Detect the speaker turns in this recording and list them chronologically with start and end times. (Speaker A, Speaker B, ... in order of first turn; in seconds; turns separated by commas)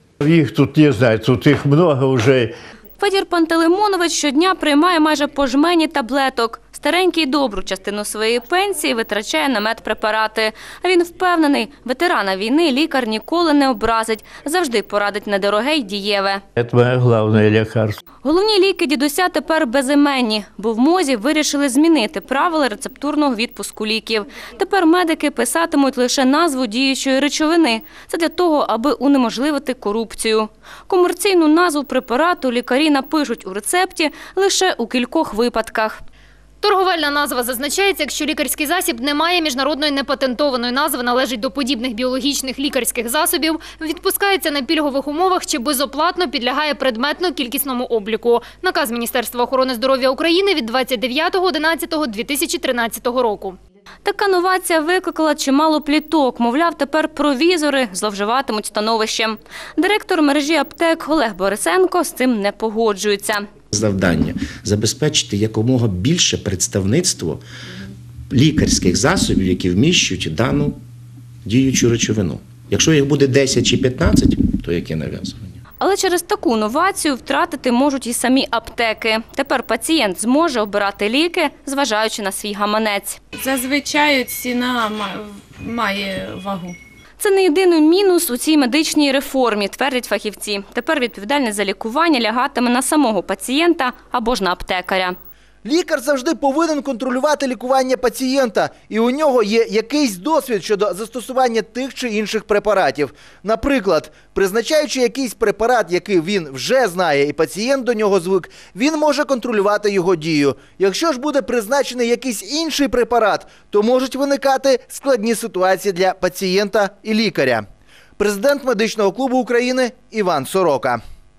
Speaker A: 0.2-2.5, Speaker B: 3.0-16.4, Speaker A: 16.6-18.0, Speaker B: 18.2-36.0, Speaker C: 36.6-53.6, Speaker B: 54.0-63.5, Speaker D: 63.7-67.4, Speaker D: 68.3-70.8, Speaker D: 71.4-75.5, Speaker B: 75.8-83.2, Speaker E: 83.3-86.8, Speaker B: 87.2-95.2, Speaker F: 95.6-117.6, Speaker F: 118.2-121.0